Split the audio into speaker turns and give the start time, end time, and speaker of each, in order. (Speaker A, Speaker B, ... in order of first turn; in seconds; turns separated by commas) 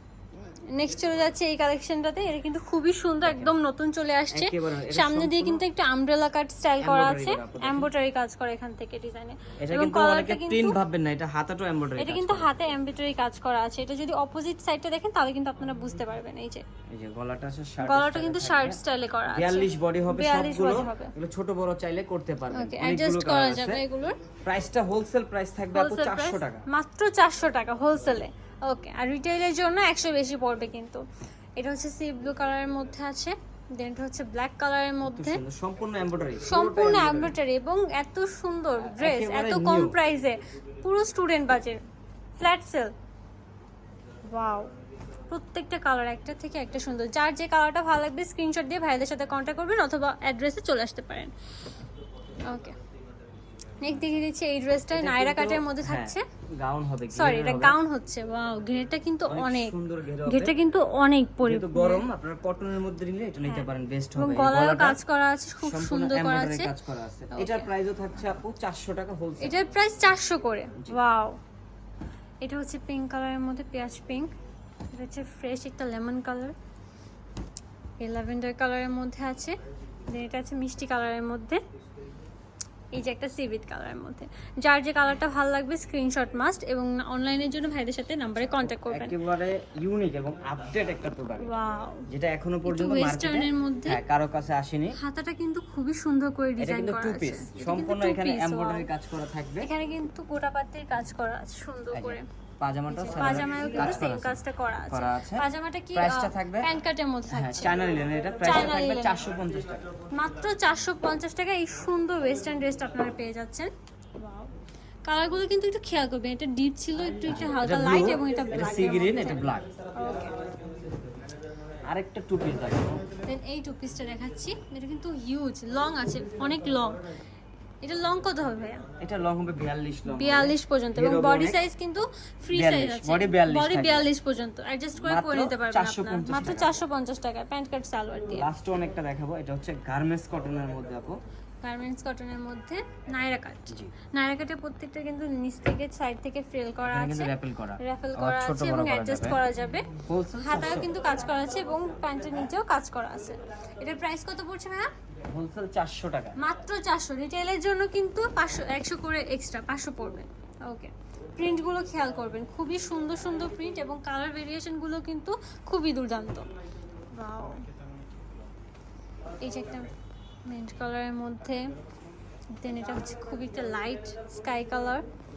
Speaker A: 0.7-10.8, Speaker B: 3.2-3.5, Speaker B: 4.3-5.6, Speaker B: 6.8-7.9, Speaker B: 9.6-12.5, Speaker A: 12.0-16.6, Speaker B: 16.9-23.8, Speaker A: 17.8-21.1, Speaker A: 22.5-24.2, Speaker B: 24.4-26.6, Speaker A: 25.7-31.0, Speaker A: 31.6-35.4, Speaker B: 35.0-37.4, Speaker A: 36.5-41.8, Speaker B: 38.8-40.0, Speaker A: 42.4-42.9, Speaker A: 44.3-44.7, Speaker A: 45.3-51.3, Speaker A: 52.4-52.7, Speaker A: 53.8-56.2, Speaker B: 54.9-57.8, Speaker A: 57.1-62.0, Speaker B: 59.3-60.6, Speaker B: 61.4-65.0, Speaker A: 63.4-66.7, Speaker B: 65.6-69.6, Speaker A: 67.3-67.7, Speaker A: 69.4-71.4, Speaker A: 72.4-74.3, Speaker A: 74.9-76.5, Speaker A: 78.0-79.5, Speaker A: 80.1-81.6, Speaker A: 82.9-89.2, Speaker B: 88.4-95.0, Speaker A: 91.4-92.0, Speaker A: 92.7-94.0, Speaker A: 95.0-98.9, Speaker B: 96.6-99.7, Speaker A: 99.6-102.2, Speaker B: 101.9-106.7, Speaker A: 102.9-107.7, Speaker B: 107.3-109.9, Speaker A: 108.4-109.2, Speaker A: 110.1-114.5, Speaker A: 115.0-120.3, Speaker B: 117.2-119.7, Speaker B: 121.8-123.0, Speaker A: 123.2-127.1, Speaker A: 127.8-128.9, Speaker B: 129.0-131.6, Speaker A: 130.1-138.5, Speaker B: 132.5-134.1, Speaker B: 135.0-136.8, Speaker B: 138.3-141.2, Speaker A: 141.6-154.9, Speaker B: 146.8-149.4, Speaker B: 150.0-150.9, Speaker B: 155.2-156.4, Speaker A: 156.4-166.5, Speaker A: 167.1-167.6, Speaker A: 169.4-169.9, Speaker A: 170.4-171.6, Speaker A: 172.6-175.0